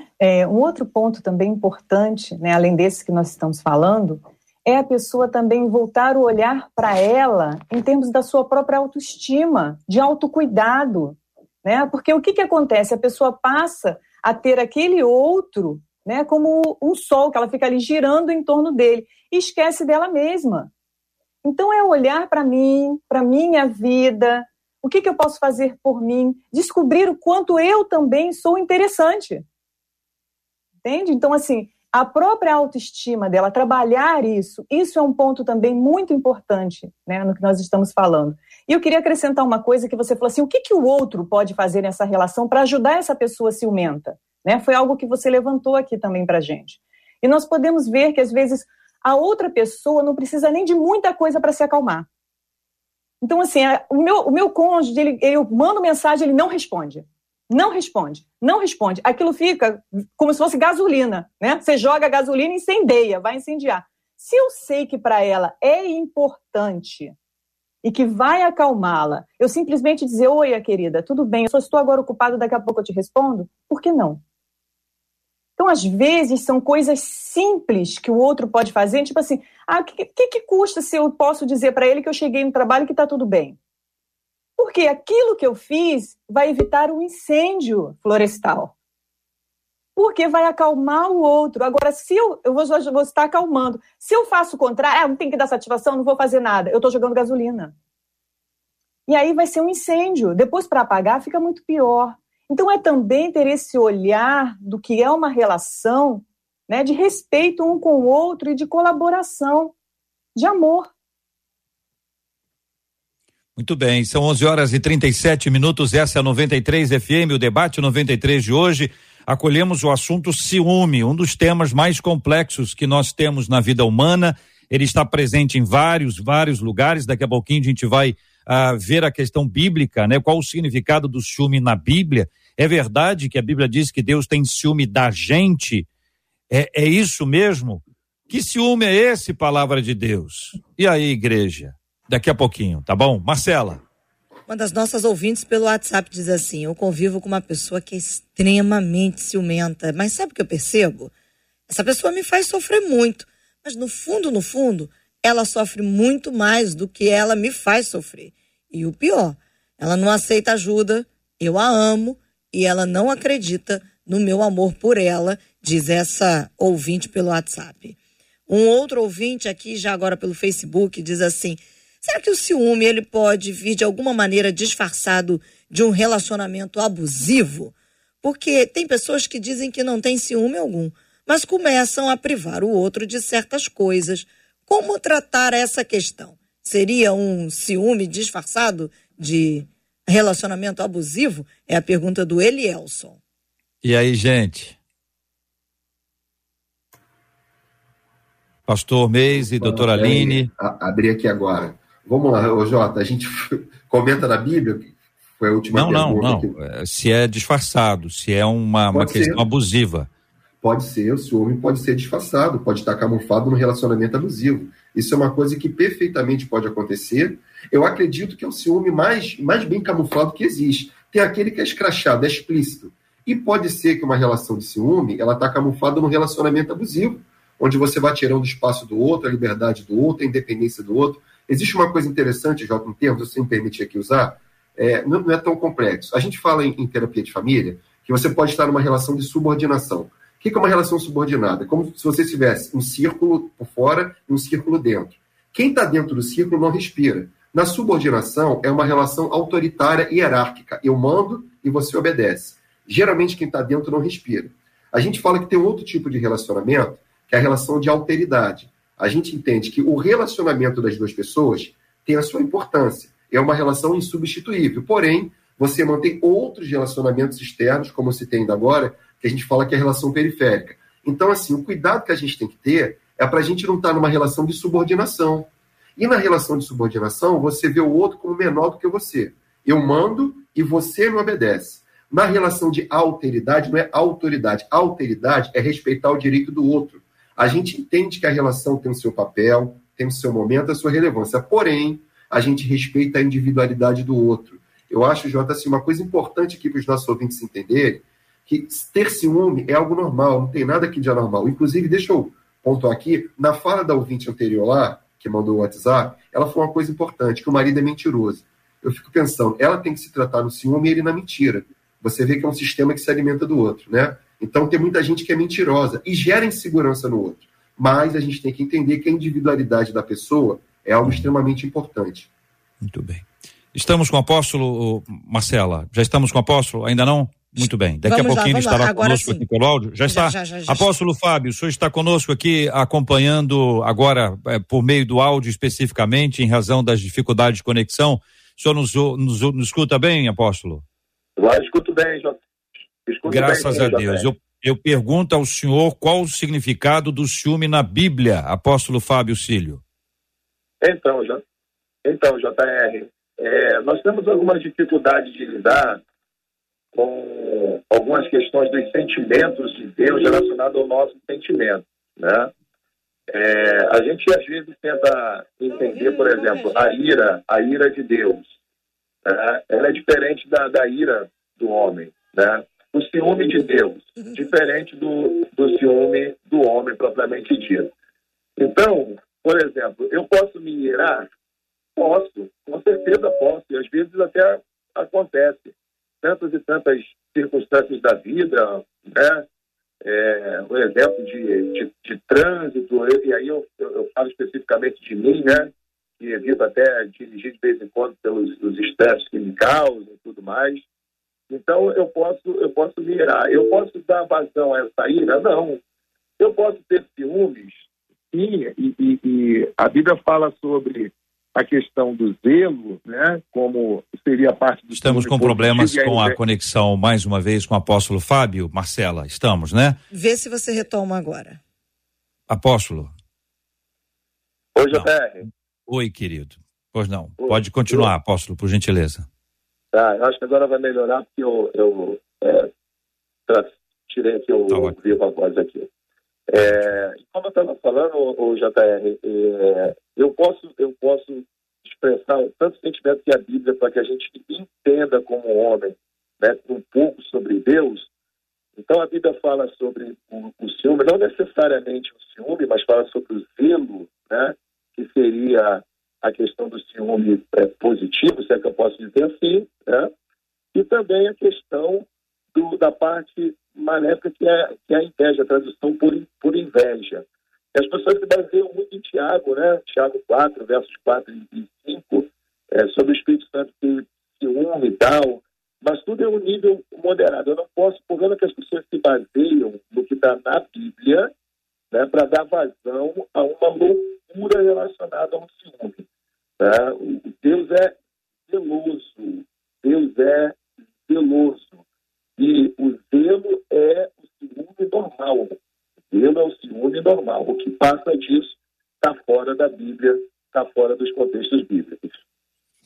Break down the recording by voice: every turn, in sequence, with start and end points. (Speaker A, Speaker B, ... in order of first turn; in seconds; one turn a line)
Speaker A: 0.2-20.7
Speaker A: 21.4-29.4
Speaker A: 30.8-52.1
Speaker A: 53.2-67.1
Speaker A: 67.8-74.2
Speaker A: 75.6-83.6
Speaker A: 84.6-88.7
Speaker A: 90.0-97.7
Speaker A: 99.1-109.7
Speaker A: 110.4-110.9
Speaker B: 113.6-135.9
Speaker B: 136.5-143.8
Speaker C: 144.5-151.1
Speaker C: 151.7-168.0
Speaker C: 168.5-193.2
Speaker B: 193.8-194.8
Speaker B: 198.7-200.5
Speaker D: 199.4-206.5
Speaker B: 205.7-210.1
Speaker D: 208.9-209.4
Speaker D: 210.6-322.3
Speaker B: 321.0-321.3
Speaker B: 322.8-340.8
Speaker C: 328.0-329.4
Speaker C: 330.1-330.9
Speaker E: 341.4-342.4
Speaker E: 343.1-344.3
Speaker B: 343.3-349.8
Speaker E: 350.8-351.4
Speaker E: 352.1-356.0
Speaker E: 356.9-362.5
Speaker E: 363.3-368.5
Speaker C: 365.8-366.9
Speaker E: 369.2-377.9
Speaker E: 378.6-381.3
Speaker E: 382.0-389.5
Speaker E: 390.0-400.9
Speaker E: 401.5-405.8
Speaker E: 406.4-416.4
Speaker B: 414.9-420.0
Speaker C: 420.1-421.6
Speaker B: 422.5-423.1
Speaker E: 424.8-425.5
Speaker B: 425.9-429.3
Speaker E: 427.4-428.1
Speaker E: 429.9-432.7
Speaker E: 433.5-435.9
Speaker B: 434.7-435.2
Speaker E: 436.5-448.1
Speaker B: 436.6-436.9
Speaker E: 448.8-460.1
Speaker E: 460.7-481.3
Speaker E: 481.9-486.1
Speaker E: 486.6-488.0
Speaker E: 488.5-491.8
Speaker E: 492.4-495.6
Speaker E: 496.1-502.2